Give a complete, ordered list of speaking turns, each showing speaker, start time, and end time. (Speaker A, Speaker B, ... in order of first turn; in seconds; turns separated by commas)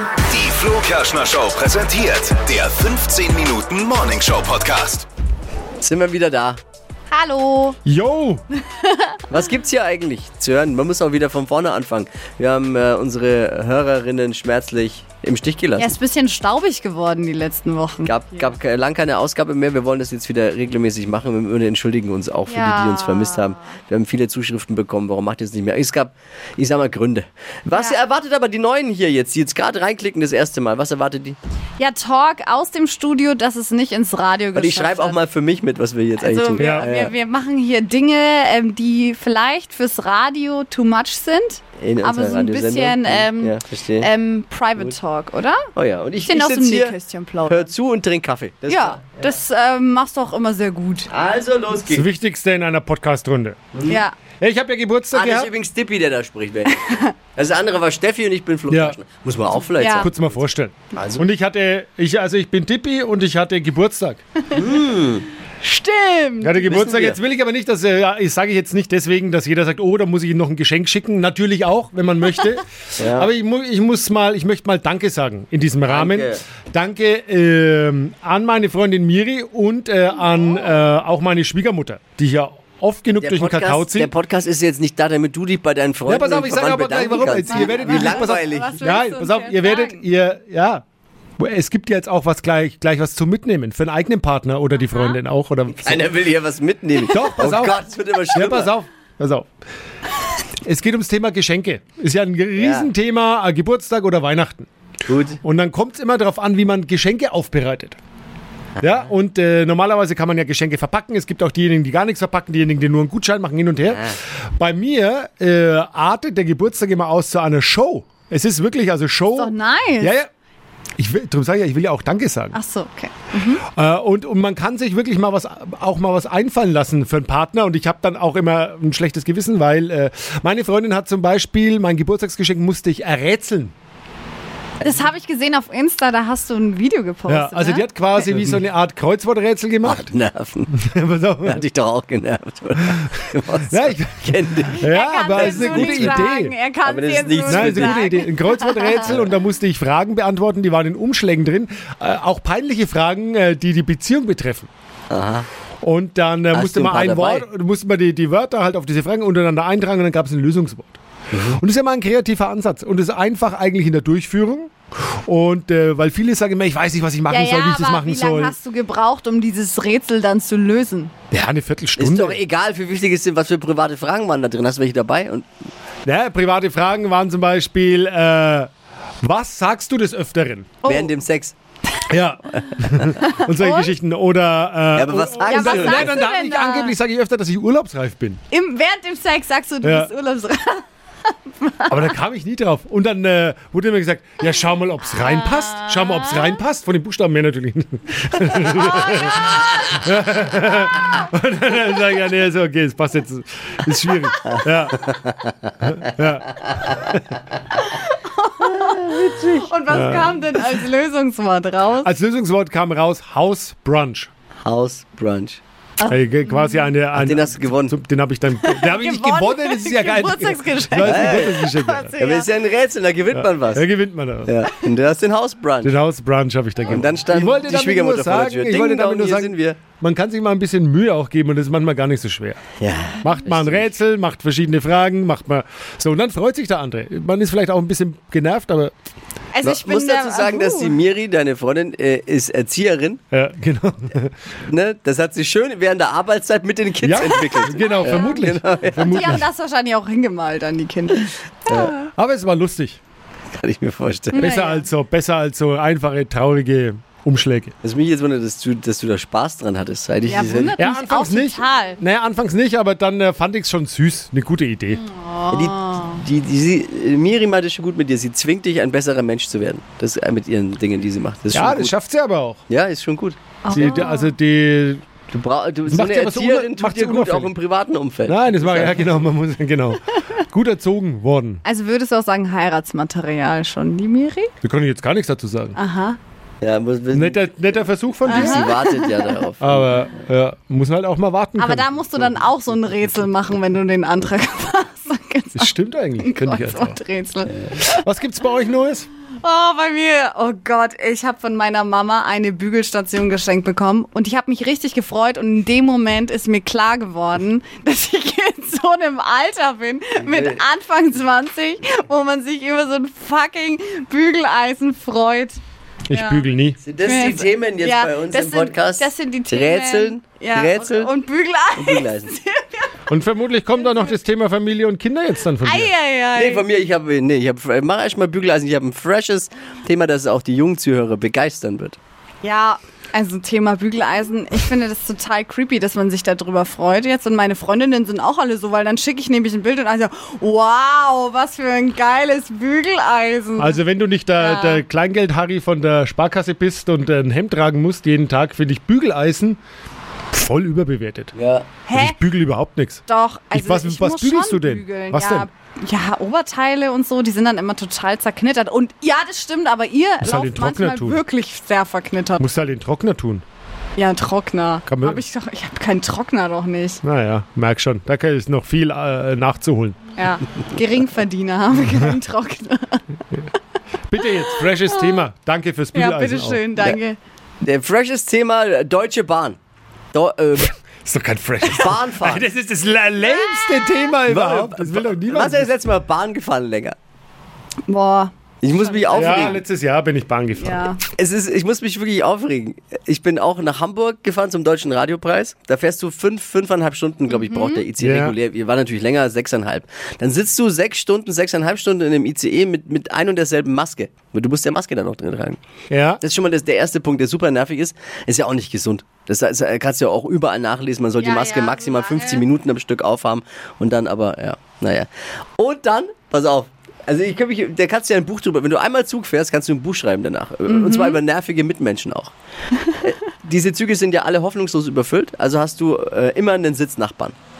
Speaker A: 0.2-5.1, Speaker B: 5.8-6.6, Speaker C: 7.1-7.8, Speaker D: 7.8-8.4, Speaker C: 8.8-9.2, Speaker B: 9.3-15.9, Speaker C: 15.8-18.5, Speaker B: 18.1-31.4, Speaker C: 22.5-23.6, Speaker C: 31.8-35.2, Speaker B: 34.5-37.1, Speaker C: 36.2-45.7, Speaker D: 36.6-36.9, Speaker B: 41.8-44.1, Speaker B: 45.7-46.9, Speaker C: 46.2-47.7, Speaker B: 47.5-49.1, Speaker C: 48.7-51.1, Speaker B: 51.1-52.0, Speaker D: 51.8-53.6, Speaker B: 53.7-54.0, Speaker C: 53.9-54.1, Speaker D: 54.4-55.5, Speaker B: 55.1-61.2, Speaker D: 58.7-59.0, Speaker C: 59.8-60.1, Speaker D: 59.9-64.2, Speaker B: 64.5-65.3, Speaker C: 65.6-66.7, Speaker D: 66.4-84.1, Speaker B: 66.7-67.2, Speaker B: 73.0-73.3, Speaker B: 75.8-76.4, Speaker B: 83.2-88.8, Speaker D: 86.1-90.8, Speaker C: 87.4-90.0, Speaker D: 91.4-96.1, Speaker C: 94.9-95.2, Speaker B: 95.7-98.7, Speaker D: 97.1-97.8, Speaker D: 98.3-99.5, Speaker D: 100.6-104.7, Speaker B: 102.5-102.9, Speaker B: 105.0-105.4, Speaker D: 105.4-108.0, Speaker D: 108.8-120.3, Speaker C: 119.3-120.1, Speaker D: 121.0-122.5, Speaker C: 122.5-123.6, Speaker D: 123.7-133.7, Speaker C: 134.8-137.8, Speaker D: 137.3-140.1, Speaker B: 139.8-140.7, Speaker D: 140.7-141.6, Speaker B: 141.4-146.2, Speaker D: 143.7-146.5, Speaker C: 144.8-149.2, Speaker B: 146.8-148.1, Speaker D: 147.5-154.7, Speaker B: 155.1-155.5, Speaker D: 155.8-161.0, Speaker B: 156.5-157.4, Speaker B: 161.3-161.6, Speaker D: 161.5-168.5, Speaker C: 167.3-171.1, Speaker D: 171.3-172.4, Speaker B: 172.0-175.4, Speaker D: 176.1-178.7, Speaker D: 179.2-180.8, Speaker C: 180.8-181.1, Speaker B: 180.8-181.5, Speaker D: 182.1-188.4, Speaker C: 183.2-183.9, Speaker B: 184.9-186.2, Speaker C: 185.5-186.9, Speaker C: 188.5-190.8, Speaker D: 189.8-190.1, Speaker C: 191.5-192.0, Speaker D: 191.9-205.1, Speaker C: 195.7-196.5, Speaker C: 198.9-199.3, Speaker B: 204.9-205.5, Speaker D: 205.8-207.2, Speaker C: 207.8-212.1, Speaker B: 208.6-209.6, Speaker D: 209.9-210.4, Speaker D: 212.0-214.3, Speaker B: 214.6-215.6, Speaker C: 216.0-216.9, Speaker D: 216.1-222.2, Speaker B: 217.1-217.9, Speaker C: 218.6-222.5, Speaker B: 221.0-221.6, Speaker B: 222.2-223.8, Speaker D: 223.3-224.5, Speaker B: 224.4-225.9, Speaker D: 225.8-232.6, Speaker B: 226.8-229.8, Speaker B: 232.8-233.8, Speaker D: 233.2-238.9, Speaker C: 239.5-241.0, Speaker B: 239.6-243.2, Speaker D: 243.3-244.3, Speaker B: 244.7-249.4, Speaker D: 247.0-249.5, Speaker C: 247.8-248.3, Speaker C: 249.0-251.9, Speaker B: 251.7-251.9, Speaker D: 252.1-253.0, Speaker B: 253.6-254.5, Speaker C: 254.3-254.8, Speaker D: 254.3-257.7, Speaker B: 257.8-260.7, Speaker C: 260.3-262.0, Speaker D: 260.8-265.0, Speaker C: 264.9-266.2, Speaker B: 265.5-271.9, Speaker D: 271.5-272.6, Speaker B: 272.7-273.9, Speaker C: 273.6-274.3, Speaker D: 273.7-275.0, Speaker B: 275.3-279.2, Speaker D: 275.9-277.5, Speaker D: 278.3-281.6, Speaker C: 281.6-284.5, Speaker D: 284.6-285.8, Speaker C: 285.7-286.2, Speaker B: 286.6-287.5, Speaker D: 287.1-288.7, Speaker B: 288.2-290.1, Speaker C: 288.2-289.3, Speaker D: 289.6-291.9, Speaker C: 291.6-298.0, Speaker D: 295.5-297.0, Speaker D: 298.0-299.1, Speaker C: 299.4-316.4, Speaker B: 310.2-310.6, Speaker D: 316.1-316.8, Speaker B: 316.8-321.1, Speaker C: 317.0-323.0, Speaker B: 321.7-322.3, Speaker D: 323.1-325.9, Speaker C: 325.6-326.6, Speaker B: 326.3-332.0, Speaker C: 332.4-343.8, Speaker D: 343.6-349.6, Speaker C: 344.4-344.8, Speaker D: 350.3-351.3, Speaker B: 351.3-351.7, Speaker C: 351.9-352.2, Speaker D: 351.9-355.5, Speaker C: 353.1-362.4, Speaker D: 360.2-361.2, Speaker D: 362.4-363.4, Speaker C: 363.9-367.0, Speaker D: 364.9-365.2, Speaker D: 367.0-370.0, Speaker C: 370.1-373.0, Speaker D: 374.1-376.7, Speaker C: 374.4-375.3, Speaker C: 375.9-377.2, Speaker B: 377.6-379.6, Speaker B: 380.1-380.7, Speaker D: 381.0-385.7, Speaker B: 381.6-382.5, Speaker B: 384.3-386.9, Speaker C: 387.9-389.6, Speaker B: 388.6-389.6, Speaker D: 389.1-390.9, Speaker C: 390.6-391.0, Speaker B: 391.2-405.6, Speaker C: 397.3-397.8, Speaker D: 398.0-398.4, Speaker D: 405.9-406.2, Speaker B: 406.2-415.1, Speaker C: 411.2-412.4, Speaker B: 415.6-422.3, Speaker C: 420.7-421.2, Speaker B: 423.0-427.3